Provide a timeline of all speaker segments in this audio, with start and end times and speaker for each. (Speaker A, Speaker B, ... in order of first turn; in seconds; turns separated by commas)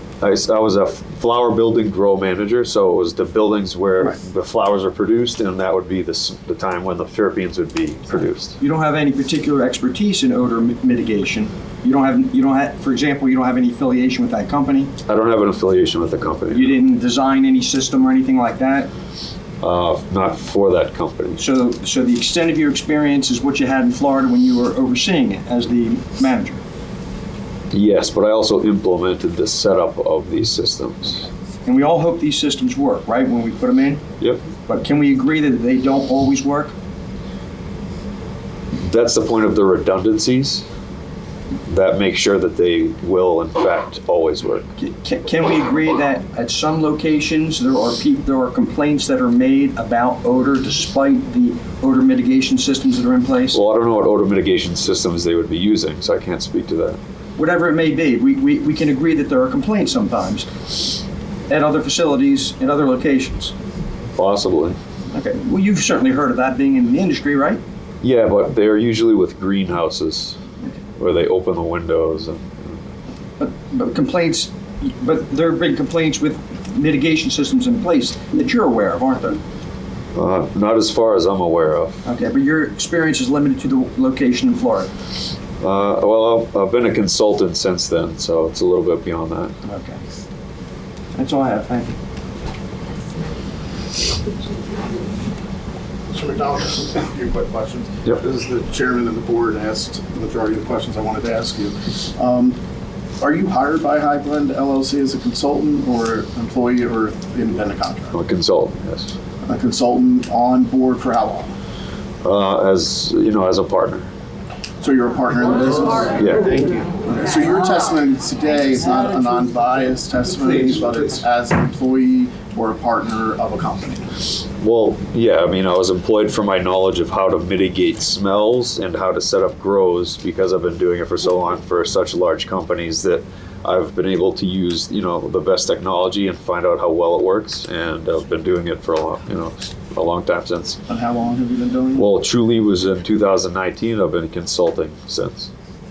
Speaker A: 0.2-8.6, Speaker B: 8.6-14.9, Speaker A: 15.1-16.8, Speaker B: 16.5-18.9, Speaker A: 19.6-21.4, Speaker B: 21.4-26.6, Speaker A: 27.7-31.3, Speaker B: 31.6-34.0, Speaker B: 34.6-36.7, Speaker A: 38.8-40.6, Speaker A: 41.7-44.7, Speaker B: 44.8-53.6, Speaker A: 53.5-57.0, Speaker B: 57.4-60.7, Speaker B: 61.5-63.5, Speaker A: 64.2-64.8, Speaker B: 65.1-67.6, Speaker A: 68.0-70.4, Speaker A: 71.0-72.8, Speaker B: 73.4-79.4, Speaker A: 80.1-82.0, Speaker B: 82.0-84.9, Speaker A: 85.6-89.5, Speaker B: 89.6-90.0, Speaker B: 91.1-92.0, Speaker C: 96.1-102.6, Speaker C: 103.2-108.2, Speaker A: 108.1-109.1, Speaker C: 109.4-111.5, Speaker A: 112.2-114.1, Speaker C: 114.8-124.3, Speaker A: 116.2-116.5, Speaker A: 124.6-140.8, Speaker C: 140.9-142.1, Speaker A: 141.9-145.5